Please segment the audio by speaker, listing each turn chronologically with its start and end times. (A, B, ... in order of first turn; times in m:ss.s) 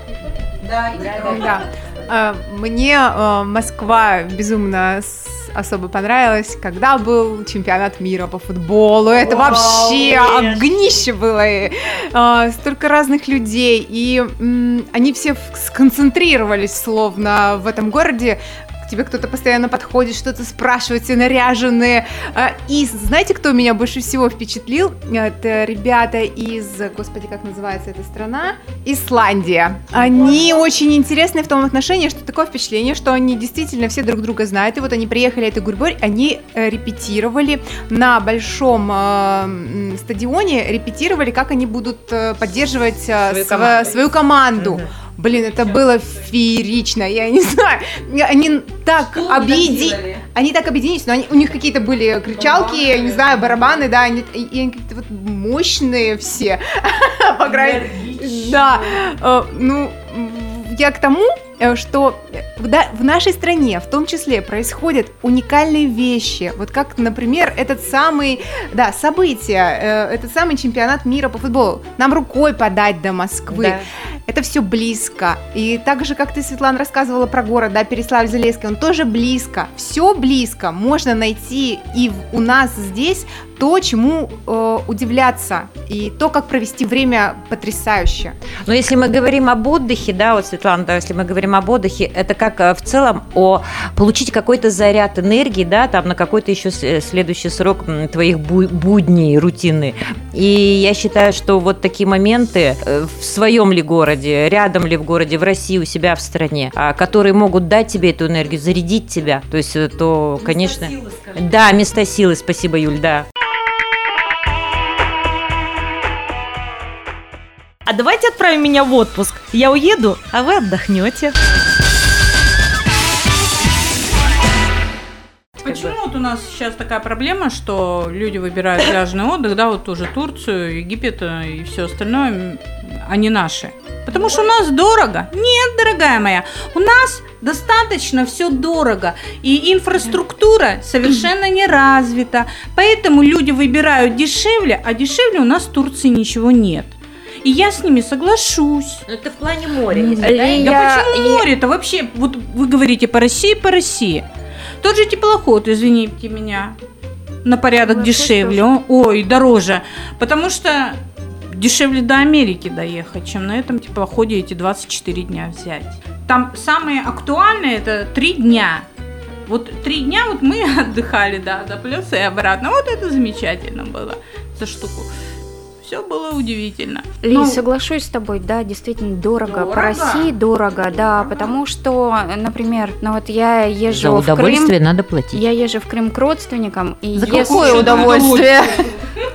0:00.5-0:01.6 A
0:01.2-1:28.3 B
0:43.4-0:43.8 C
0:44.6-0:44.8 C
0:45.3-0:46.2 D
0:49.4-0:49.8 C
0:52.3-0:53.9 D
0:57.4-0:58.8 D
1:13.5-1:13.8 C
1:28.6-1:53.2 C
1:50.4-1:51.5 E
1:57.9-2:01.4 E
2:05.6-2:29.0 D
2:05.6-2:05.9 E
2:29.1-2:30.8 C
2:29.9-2:34.3 D
2:30.2-2:31.4 F
2:34.8-2:36.8 D
2:37.4-2:48.9 D
2:37.7-2:38.6 F
2:49.4-2:55.1 D
2:55.8-2:57.6 D
2:57.2-3:04.7 F
2:59.4-3:00.3 D
3:03.9-3:05.4 C
3:05.3-3:08.4 F
3:07.1-3:08.8 A
3:07.2-3:09.0 D